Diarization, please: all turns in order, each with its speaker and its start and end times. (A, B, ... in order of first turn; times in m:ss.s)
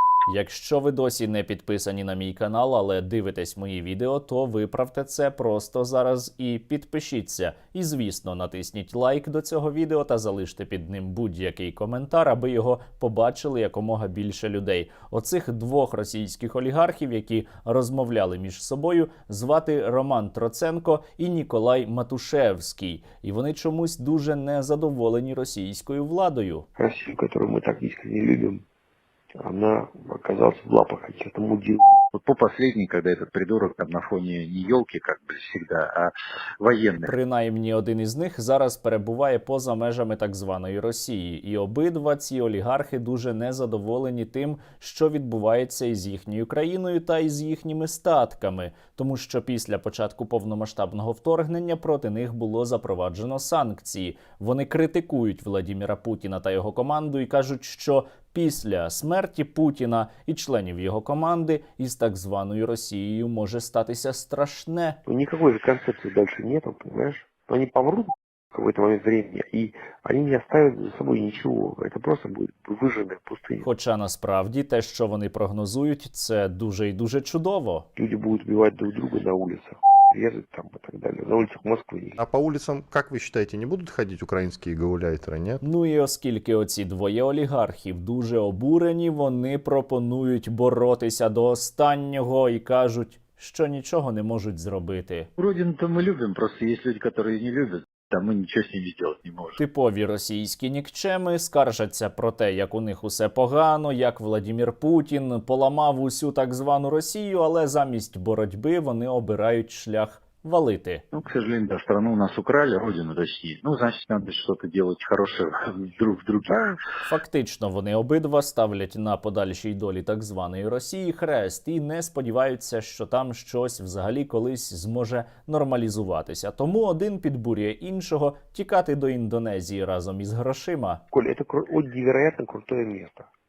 0:00.3-0:26.7 A
0:26.8-0:28.6 B
0:29.4-0:32.0 B
0:32.1-0:37.1 C
0:37.0-1:05.0 A
1:05.1-1:13.7 B
1:13.6-1:17.9 A
1:18.0-1:22.2 B
1:22.2-1:25.6 D
1:25.6-1:35.3 A
1:35.4-1:39.6 C
1:39.6-1:51.0 A
1:51.1-1:56.8 C
1:57.0-2:11.0 A
2:11.1-2:13.3 B